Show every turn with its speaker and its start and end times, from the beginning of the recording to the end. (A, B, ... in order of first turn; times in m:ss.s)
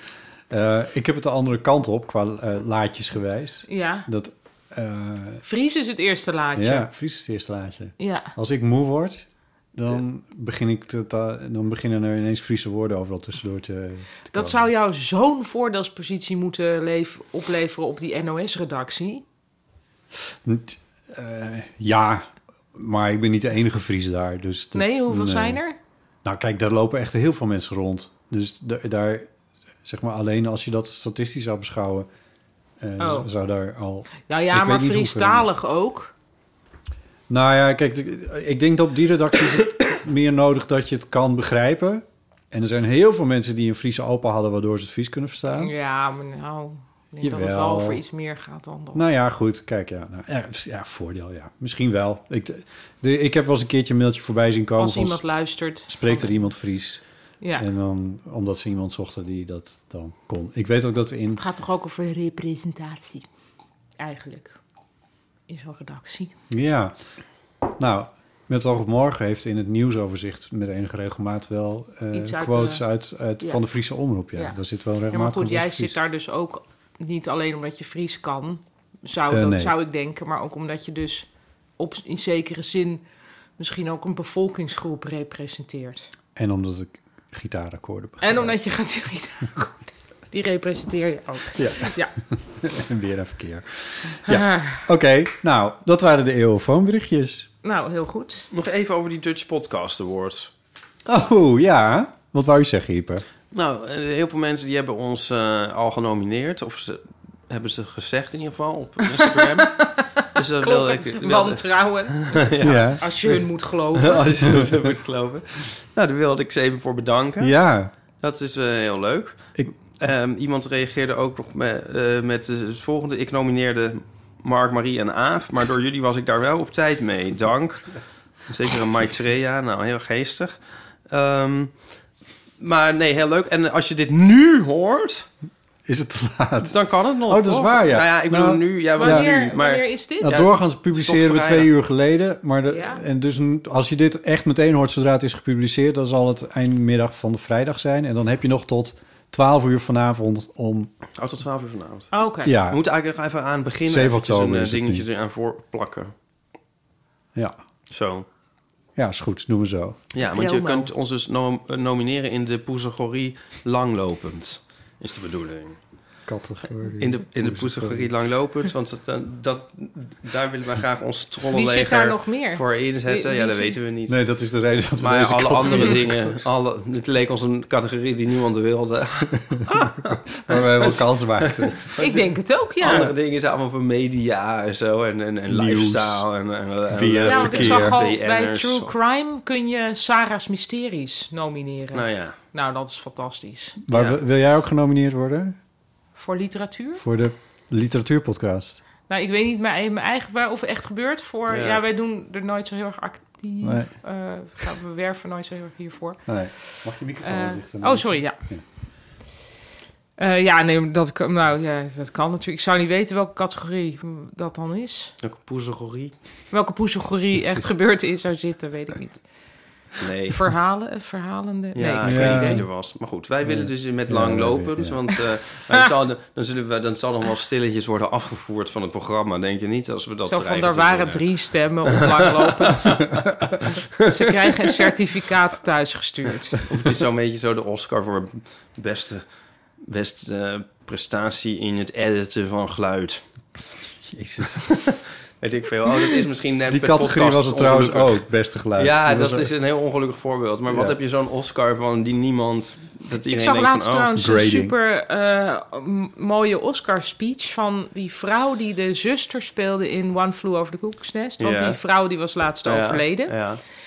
0:00.5-0:05.4 A
0:03.7-0:04.1 B
0:05.4-0:06.9 B
0:06.5-0:14.6 A
0:08.0-0:08.3 B
0:14.3-0:19.2 B
0:20.4-0:25.6 A
0:24.7-0:25.8 B
0:26.2-0:29.3 A
0:29.8-0:32.1 A
0:32.8-0:35.5 A
0:33.0-0:33.3 B
0:34.3-0:36.1 B
0:37.3-0:45.7 A
0:45.5-0:49.1 B
0:47.2-0:48.0 A
0:48.9-0:55.2 A
0:54.8-0:56.4 B
0:55.9-0:57.0 A
0:57.5-1:01.4 A
1:01.4-1:03.2 B
1:04.0-1:04.6 B
1:05.5-1:06.3 B
1:06.5-1:07.0 A
1:07.8-1:16.0 A
1:12.1-1:12.8 B
1:15.1-1:21.3 B
1:19.3-1:19.7 A
1:21.8-1:23.0 B
1:23.6-1:26.1 B
1:26.4-1:28.5 A
1:28.2-1:32.1 B
1:31.6-1:37.5 A
1:34.2-1:34.8 B
1:37.6-1:38.5 B
1:38.5-1:40.5 C
1:41.0-1:43.2 A
1:43.5-1:53.3 C
1:49.2-1:54.2 B
1:52.6-1:53.0 A
1:54.0-1:57.6 C
1:57.4-1:57.9 A
1:58.2-2:10.5 C
2:11.1-2:11.7 C
2:12.6-2:15.3 C
2:15.8-2:19.3 A
2:16.6-2:21.7 C
2:19.0-2:20.4 B
2:20.2-2:30.9 A
2:22.7-2:23.0 B
2:31.2-2:36.1 C
2:32.1-2:32.5 B
2:32.4-2:32.8 A
2:33.8-2:35.0 A
2:37.9-2:38.2 C
2:39.0-2:40.0 A
2:40.1-2:45.8 C
2:40.2-2:40.9 B
2:46.2-2:48.1 A
2:47.0-2:54.2 C
2:51.5-2:53.8 B
2:54.1-2:56.4 A
2:55.0-3:02.2 C
3:00.1-3:01.9 A
3:02.0-3:03.1 B
3:02.8-3:08.9 C
3:05.5-3:06.2 A
3:06.9-3:08.1 A
3:07.2-3:13.8 B
3:11.9-3:12.4 C
3:13.8-3:15.6 A
3:13.9-3:14.2 C
3:16.2-3:17.0 B
3:17.0-3:18.8 A
3:19.1-3:28.4 B
3:21.5-3:21.8 C
3:23.6-3:23.9 A
3:26.3-3:28.6 A
3:30.2-3:35.1 B
3:35.2-3:36.2 C
3:36.5-3:39.2 B
3:40.0-3:40.4 C
3:40.3-3:42.6 B
3:41.7-3:51.3 C
3:42.0-3:42.7 A
3:43.4-3:45.0 A
3:50.2-3:53.0 B
3:54.0-3:56.6 B
3:56.7-3:59.2 C
3:59.8-4:03.2 C
4:04.0-4:04.6 A
4:04.6-4:14.1 C
4:06.7-4:09.5 A
4:10.7-4:11.0 A
4:13.3-4:23.4 B
4:14.1-4:14.7 A
4:21.4-4:21.8 C
4:22.6-4:23.6 C